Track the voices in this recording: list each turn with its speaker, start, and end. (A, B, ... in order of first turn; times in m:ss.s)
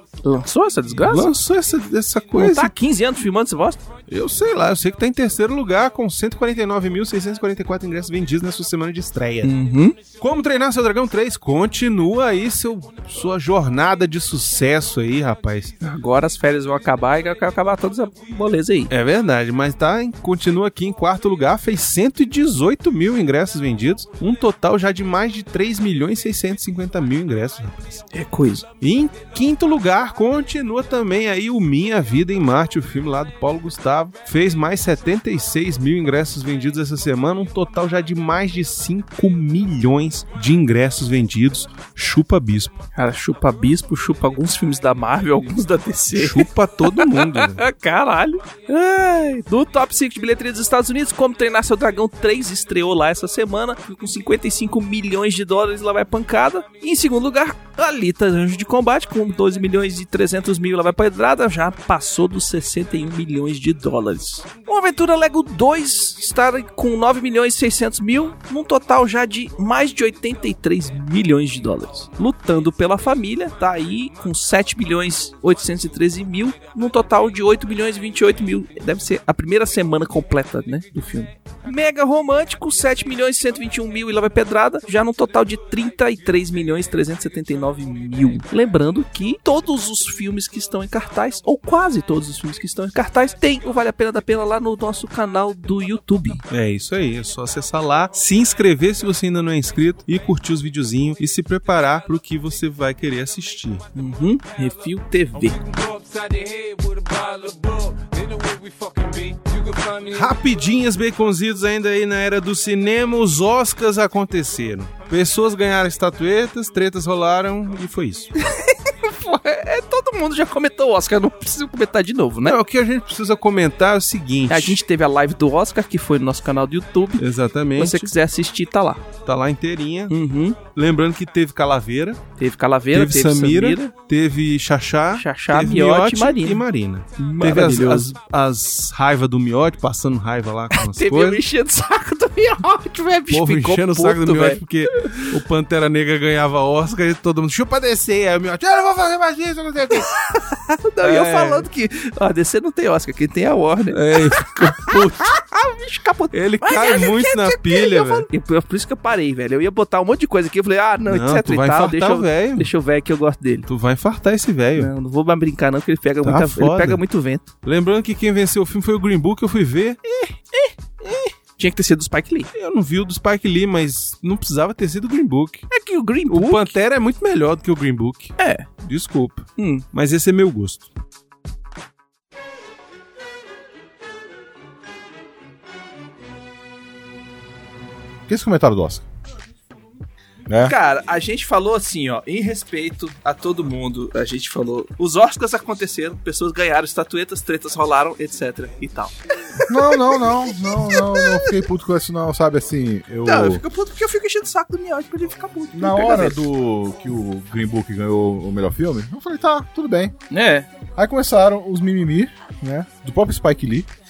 0:00.2-0:01.3 A
0:01.0-0:02.7 B
0:02.4-0:03.8 A
0:04.1-0:09.5 B
0:09.4-0:10.0 A
0:10.2-0:15.7 B
0:15.8-0:18.9 A
0:18.9-0:28.0 B
0:28.1-0:28.7 A
0:28.8-0:42.8 B
0:43.0-1:36.4 A
0:46.2-0:47.6 B
1:36.5-1:43.8 B
1:44.0-1:45.6 A
1:45.4-1:50.4 C
1:50.1-1:58.3 B
1:58.4-2:02.6 A
2:02.4-2:04.8 B
2:04.5-2:09.1 A
2:07.2-2:08.1 B
2:09.2-2:10.2 B
2:10.1-2:10.6 A
2:10.7-2:12.2 B
2:12.4-2:13.9 A
2:12.9-2:21.4 B
2:15.2-2:16.6 A
2:17.2-2:18.1 A
2:20.7-2:25.3 A
2:23.3-2:30.2 B
2:30.3-2:43.7 A
2:31.0-2:31.7 B
2:33.9-2:35.3 B
2:36.3-2:38.3 B
2:41.1-2:42.7 B
2:43.7-2:44.9 B
2:44.8-2:47.5 A
2:46.2-2:47.0 B
2:47.6-2:50.0 B
2:50.1-2:52.5 A
2:52.5-2:55.7 B
2:55.7-2:56.7 A
2:56.3-3:00.9 B
2:58.4-2:58.7 A
2:59.6-2:59.8 A
3:08.3-3:09.0 D
3:10.5-3:10.7 D
3:10.6-3:21.6 A
3:19.7-3:23.6 D
3:23.2-3:26.4 A
3:25.7-3:30.1 D
3:30.3-3:30.7 A
3:31.0-3:33.9 D